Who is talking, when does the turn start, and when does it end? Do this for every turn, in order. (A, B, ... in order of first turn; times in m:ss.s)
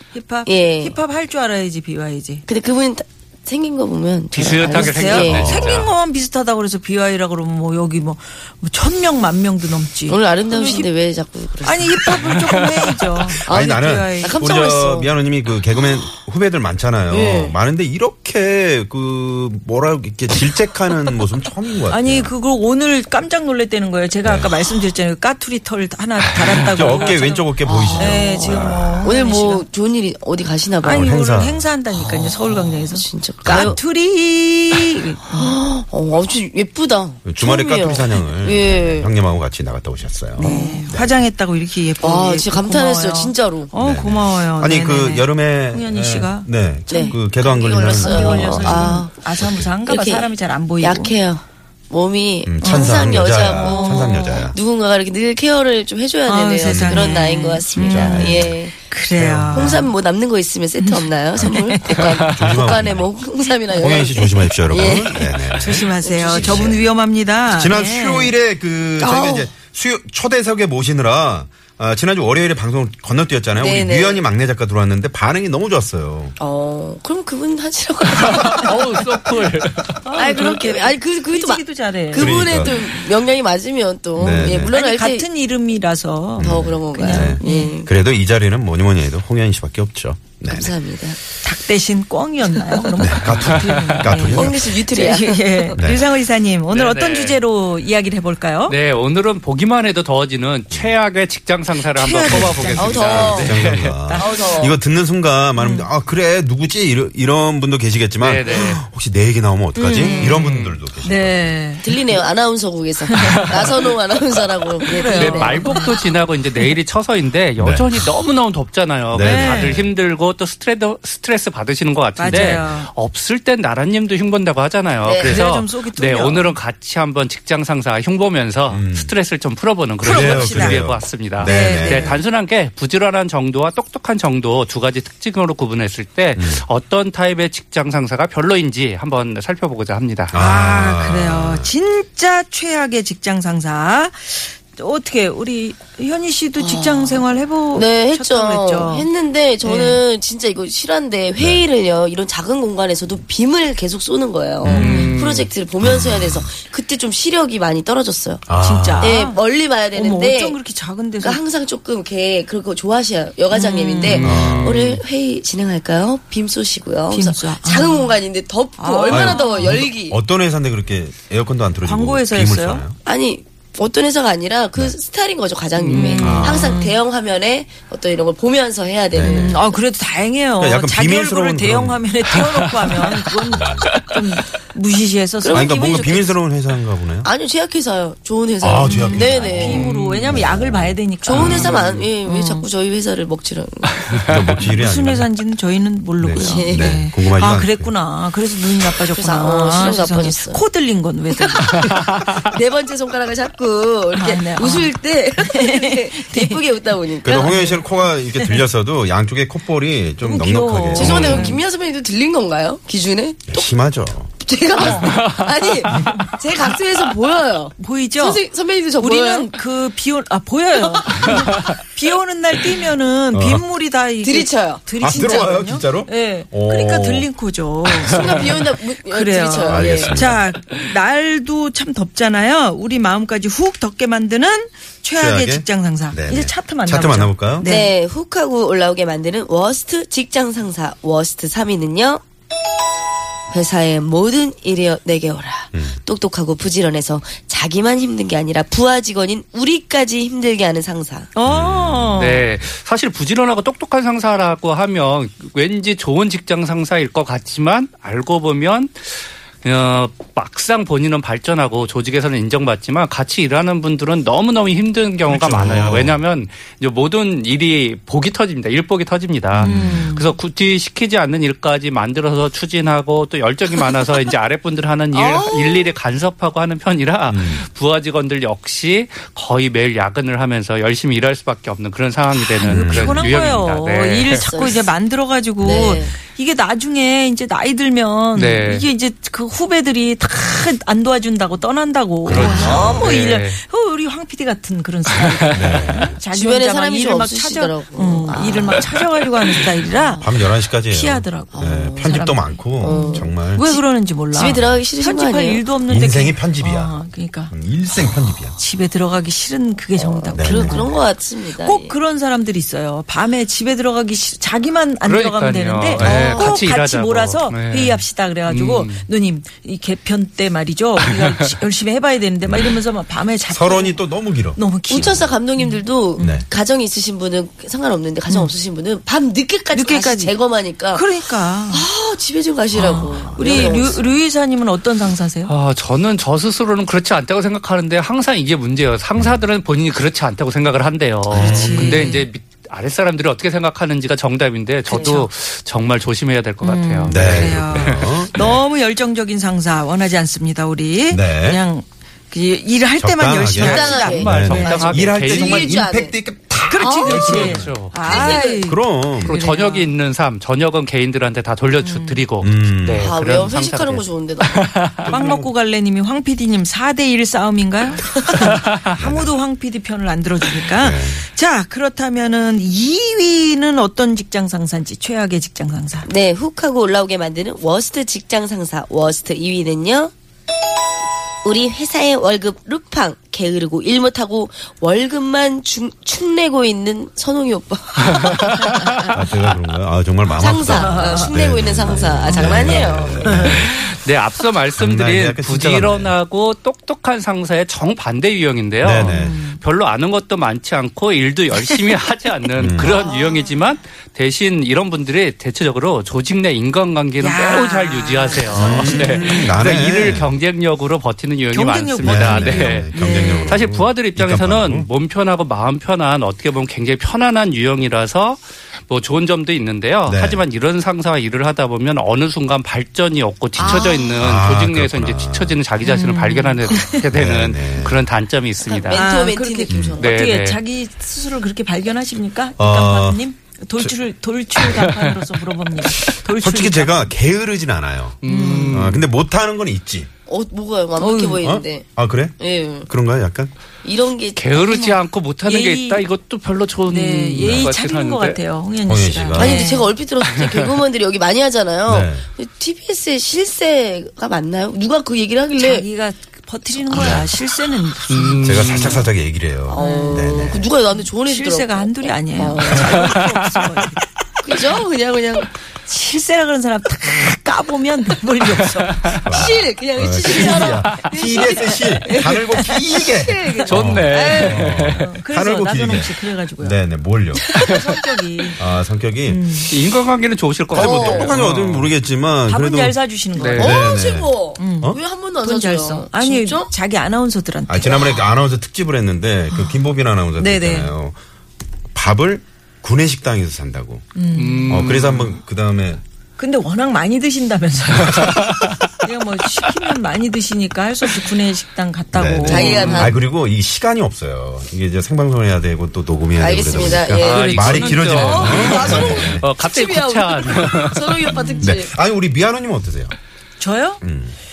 0:00.1-0:02.4 A
0:00.4-0:01.0 B
0:02.4-0:05.7 B
0:04.3-0:05.9 C
0:04.6-0:10.9 A
0:05.1-0:05.9 D
0:10.1-0:12.2 B
0:11.6-0:14.5 A
0:12.6-0:13.0 C
0:13.3-0:22.3 D
0:13.4-0:15.1 B
0:17.1-0:17.6 B
0:21.9-0:29.6 A
0:24.2-0:24.6 D
0:26.5-0:29.1 D
0:27.7-0:31.1 B
0:30.8-0:35.5 A
0:30.9-0:31.7 D
0:32.0-0:33.8 B
0:35.2-0:39.1 B
0:37.2-0:41.2 D
0:40.4-0:40.9 B
0:40.4-0:47.2 A
0:42.0-0:43.7 B
0:43.8-0:49.7 D
0:46.9-0:49.2 B
0:47.7-0:51.1 A
0:49.8-0:58.8 B
0:52.4-0:54.6 D
0:52.6-0:54.5 A
0:56.2-0:59.9 A
0:56.6-0:58.6 D
0:59.1-0:59.9 D
0:59.5-1:05.4 B
1:00.8-1:02.1 A
1:01.4-1:03.1 D
1:03.7-1:06.9 D
1:05.5-1:08.3 A
1:06.0-1:06.8 B
1:07.5-1:16.4 D
1:09.0-1:09.5 B
1:13.6-1:14.2 B
1:16.4-1:18.7 B
1:18.4-1:20.0 C
1:20.0-1:22.8 A
1:20.1-1:25.2 B
1:22.1-1:22.7 D
1:24.2-1:24.7 D
1:24.6-1:27.8 A
1:26.4-1:30.7 D
1:26.4-1:27.9 B
1:30.5-1:31.2 B
1:31.4-1:38.8 A
1:33.0-1:34.7 D
1:33.3-1:34.1 C
1:34.2-1:35.8 B
1:35.7-1:36.0 D
1:36.7-1:37.4 C
1:38.7-1:44.0 C
1:40.7-1:41.0 D
1:41.9-1:43.4 A
1:42.2-1:51.6 D
1:42.8-1:43.5 B
1:44.0-1:44.6 A
1:44.2-1:44.8 B
1:45.6-1:45.9 A
1:48.2-1:48.8 C
1:48.4-1:48.8 A
1:49.7-1:51.9 A
1:50.0-1:50.8 C
1:51.8-1:55.8 B
1:53.0-1:53.6 A
1:54.9-1:56.1 A
1:55.1-2:20.4 C
1:57.6-1:57.9 D
1:59.1-1:59.9 D
1:59.1-1:59.8 A
2:02.2-2:02.9 A
2:02.3-2:02.6 D
2:05.0-2:05.4 B
2:05.2-2:06.6 A
2:08.7-2:09.1 D
2:10.0-2:10.8 A
2:10.0-2:12.2 D
2:11.4-2:12.2 A
2:16.3-2:16.6 D
2:20.3-2:21.7 D
2:20.3-2:29.1 A
2:26.6-2:38.4 B
2:29.6-2:30.0 A
2:31.4-2:31.6 D
2:34.6-2:35.1 D
2:34.7-2:35.1 A
2:34.7-2:35.5 C
2:35.8-2:36.5 D
2:38.4-2:39.1 D
2:38.6-2:39.4 A
2:39.0-2:40.6 B
2:39.9-2:41.4 A
2:41.2-2:50.2 B
2:43.5-2:44.6 A
2:44.2-2:45.0 D
2:47.1-2:48.2 A
2:48.8-2:49.8 A
2:49.1-2:53.0 D
2:51.8-2:52.8 A
2:53.0-2:59.7 B
2:55.8-2:56.9 A
2:55.8-2:56.4 C
2:56.2-2:56.9 D
2:59.1-2:59.6 D
2:59.2-3:06.4 A
3:00.6-3:02.3 D
3:03.5-3:03.9 D
3:05.4-3:05.9 B
3:05.5-3:07.3 D
3:07.2-3:09.9 B
3:08.6-3:11.8 D
3:08.8-3:11.7 A
3:09.6-3:10.3 C
3:11.2-3:14.0 B
3:11.3-3:12.0 C
3:12.2-3:12.6 A
3:14.0-3:15.3 D
3:14.6-3:21.8 A
3:16.2-3:17.9 D
3:16.3-3:17.0 B
3:19.0-3:20.6 B
3:21.3-3:27.5 B
3:24.1-3:26.6 A
3:27.2-3:31.6 D
3:27.3-3:28.6 A
3:30.2-3:31.6 A
3:30.9-3:33.7 B
3:33.5-3:34.3 D
3:34.4-3:39.6 B
3:34.8-3:35.0 A
3:37.8-3:38.4 A
3:39.0-3:57.9 A
3:40.8-3:41.4 B
3:43.3-3:43.6 D
3:44.2-3:45.4 B
3:45.0-3:47.3 D
3:48.0-3:50.1 B
3:49.7-3:50.4 D
3:55.2-3:57.7 D
3:57.6-4:02.2 B
4:03.5-4:11.3 B
4:05.7-4:06.0 D
4:11.3-4:12.5 A
4:11.4-4:12.3 D
4:12.2-4:44.5 C
4:25.3-4:26.2 D
4:29.5-4:30.0 D
4:29.6-4:30.3 A
4:35.1-4:35.9 B
4:37.3-4:37.6 D
4:42.6-5:07.5 A
4:42.6-4:43.6 D
4:44.3-4:44.9 B
4:45.6-4:46.1 D
4:45.6-4:46.1 B
4:48.3-4:48.8 C
4:52.2-4:53.2 D
4:52.3-4:53.6 C
4:55.5-4:56.2 D
4:56.3-4:58.9 B
4:59.8-5:00.3 B
5:00.2-5:03.7 D
5:01.5-5:02.2 B
5:02.8-5:05.6 B
5:05.9-5:08.6 D
5:08.5-5:10.9 A
5:10.0-5:11.9 B
5:10.3-5:11.0 D
5:11.6-5:26.4 A
5:15.0-5:19.1 C
5:15.9-5:16.5 D
5:16.3-5:16.6 B
5:22.4-5:22.8 D
5:23.5-5:25.3 D
5:24.9-5:31.0 B
5:26.2-5:26.4 D
5:28.3-5:28.5 A
5:29.7-5:30.4 A
5:30.9-5:31.9 A
5:31.7-5:34.2 B
5:32.7-5:35.5 A
5:32.9-5:33.9 D
5:35.4-5:48.0 C
5:41.3-5:42.1 D
5:41.3-5:42.3 A
5:44.9-5:45.3 A
5:46.6-5:55.2 A
5:47.1-5:48.6 D
5:51.1-5:51.6 D
5:53.0-5:59.4 D
5:53.5-5:56.2 B
5:54.0-5:55.7 C
5:56.7-5:59.9 A
5:56.8-5:57.5 B
5:57.3-5:58.0 C
5:58.0-5:58.6 B
5:59.2-6:05.4 C
6:01.8-6:02.2 A
6:02.4-6:03.1 D
6:03.0-6:04.6 B
6:05.1-6:16.1 A
6:05.1-6:05.4 D
6:09.0-6:09.3 D
6:10.8-6:11.2 D
6:16.0-6:20.1 B
6:21.4-6:28.5 B
6:29.0-6:33.7 D
6:30.2-6:33.6 B
6:30.6-6:31.3 A
6:32.3-6:33.8 A
6:33.4-7:09.1 C
6:34.7-6:36.1 D
6:38.8-6:39.4 D
6:39.0-6:39.6 A
6:42.6-6:42.9 D
6:43.0-6:43.5 B
6:47.2-6:49.6 A
6:48.5-6:50.4 D
6:51.5-6:53.6 A
6:52.0-6:54.9 D
7:00.0-7:00.4 D
7:03.6-7:05.6 D
7:03.6-7:04.2 B
7:05.8-7:07.0 A
7:07.1-7:08.0 D
7:08.6-7:10.2 B
7:08.9-7:17.1 A
7:09.7-7:10.0 D
7:10.0-7:10.6 C
7:12.6-7:13.2 D
7:14.7-7:15.2 C
7:16.4-7:20.1 D
7:18.2-7:19.0 C
7:18.2-7:19.0 A
7:20.3-7:22.9 B
7:21.0-7:21.5 A
7:21.4-7:23.5 D
7:23.8-7:24.9 B
7:24.4-7:28.4 C
7:25.4-7:26.1 A
7:26.9-7:29.9 A
7:27.4-7:27.7 D
7:28.8-7:29.6 D
7:29.3-7:35.8 B
7:31.9-7:32.2 D
7:35.5-7:38.8 A
7:36.9-7:37.2 B
7:36.9-7:37.3 D
7:38.1-7:39.0 C
7:38.4-7:40.7 D
7:39.6-7:43.2 B
7:39.8-7:44.0 A
7:43.1-7:43.6 C
7:44.4-7:45.5 B
7:45.8-7:49.6 A
7:49.2-7:57.6 D
7:49.3-7:53.8 B
7:50.2-7:52.8 A
7:53.5-7:56.8 A
7:53.7-7:55.1 C
7:57.6-7:58.6 A
7:58.6-7:59.6 D
7:59.2-7:59.7 A
7:59.7-8:01.9 C
8:00.7-8:03.0 D
8:00.7-8:01.3 B
8:02.5-8:04.0 A
8:03.4-8:03.8 C
8:03.5-8:05.0 D
8:03.6-8:06.7 B
8:04.6-8:08.2 A
8:07.7-8:11.2 D
8:10.4-8:10.9 A
8:11.9-8:14.0 D
8:14.1-8:14.9 A
8:14.3-8:15.4 C
8:14.7-8:16.0 D
8:16.4-8:23.2 A
8:22.1-8:29.5 D
8:22.4-8:23.2 B
8:26.4-8:31.9 B
8:27.0-8:31.2 C
8:31.3-8:31.7 A
8:31.6-8:33.1 D
8:33.6-8:34.0 A
8:34.0-8:34.3 D